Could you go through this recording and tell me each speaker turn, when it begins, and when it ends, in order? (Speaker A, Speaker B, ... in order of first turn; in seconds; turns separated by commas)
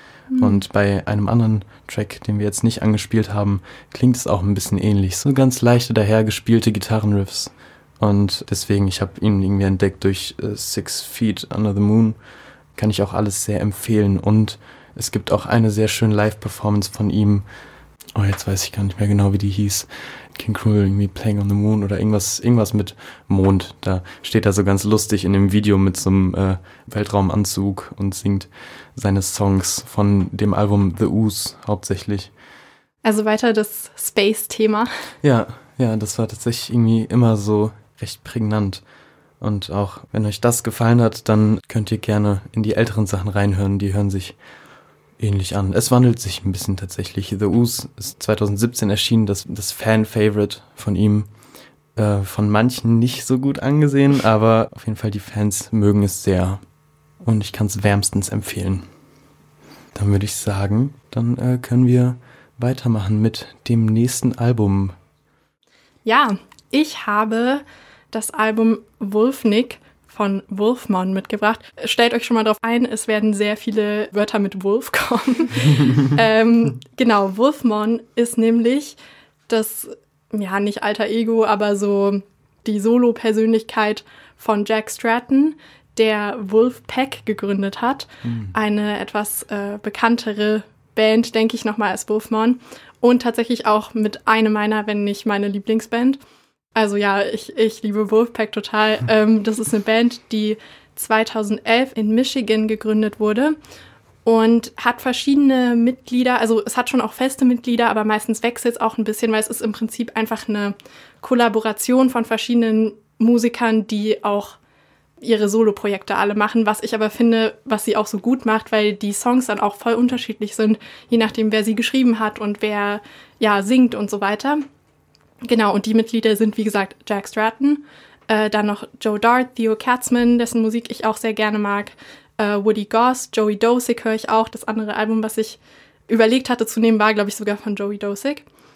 Speaker A: 0.3-0.6, Speaker B: 0.4-12.2, Speaker B: 12.8-17.4, Speaker B: 18.1-32.3, Speaker A: 33.0-34.9, Speaker B: 35.2-38.8, Speaker B: 39.4-44.4, Speaker B: 45.2-51.3, Speaker B: 52.0-56.6, Speaker B: 57.2-58.9, Speaker B: 59.9-65.0, Speaker A: 66.0-79.0, Speaker A: 79.5-96.2, Speaker B: 88.2-88.5, Speaker A: 96.7-103.5, Speaker A: 104.2-114.6, Speaker A: 115.2-124.6, Speaker A: 125.4-138.4